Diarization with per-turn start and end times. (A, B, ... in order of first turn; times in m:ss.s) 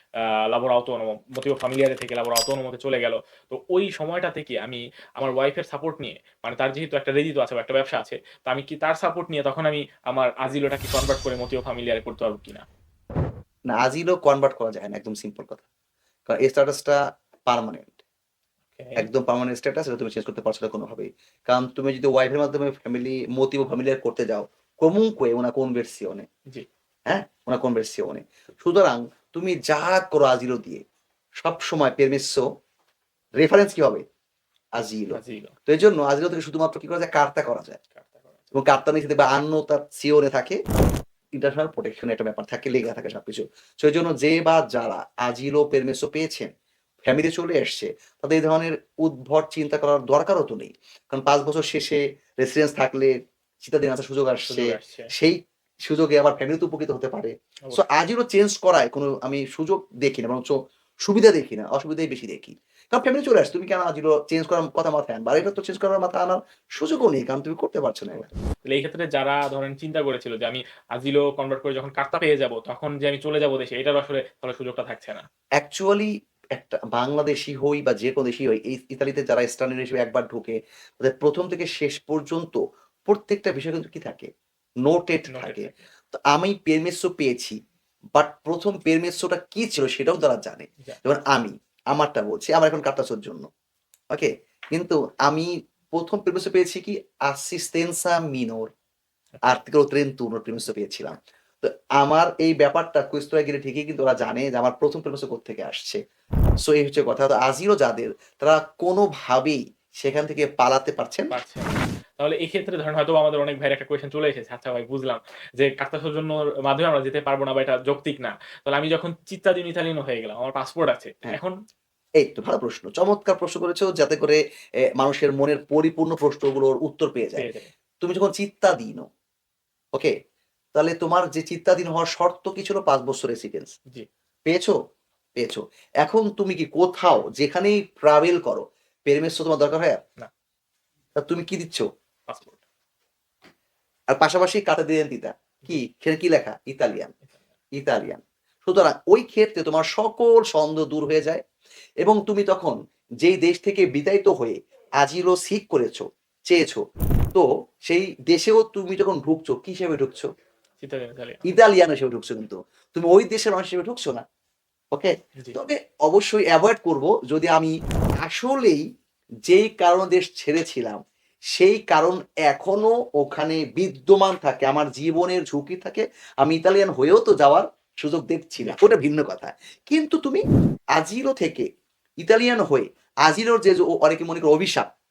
0:00.5-0:12.6 A
0:13.7-0:15.6 B
0:16.3-0:18.0 B
0:18.8-0:19.0 A
0:19.0-0:26.3 B
0:27.1-0:30.8 B
0:31.4-0:32.4 B
0:33.4-0:34.0 B
0:34.7-0:37.8 B
0:35.1-0:35.5 A
0:37.9-0:38.4 A
0:38.5-0:40.6 B
0:41.3-0:46.5 B
0:47.0-1:08.3 B
0:54.5-0:55.1 A
1:08.2-1:15.2 A
1:15.6-1:24.3 B
1:24.8-1:27.6 B
1:25.3-1:25.7 A
1:28.1-1:33.4 B
1:34.1-1:38.7 B
1:39.3-1:39.6 A
1:39.4-1:46.0 B
1:46.6-1:51.3 B
1:51.3-2:01.6 A
2:02.2-2:04.4 B
2:05.0-2:07.5 B
2:07.4-2:07.7 A
2:08.0-2:09.0 B
2:10.7-2:13.7 B
2:14.4-2:14.8 B
2:15.4-2:20.0 B
2:21.2-2:21.9 B
2:22.3-2:22.6 A
2:24.1-2:27.1 B
2:27.7-2:31.4 B
2:32.0-2:36.8 B
2:37.3-2:40.3 B
2:40.8-2:41.4 A
2:41.4-2:44.2 B
2:44.9-2:48.8 B
2:49.4-2:51.0 B
2:51.5-3:00.4 B
2:58.6-2:59.0 A
3:01.0-3:01.6 B
3:02.2-3:04.8 B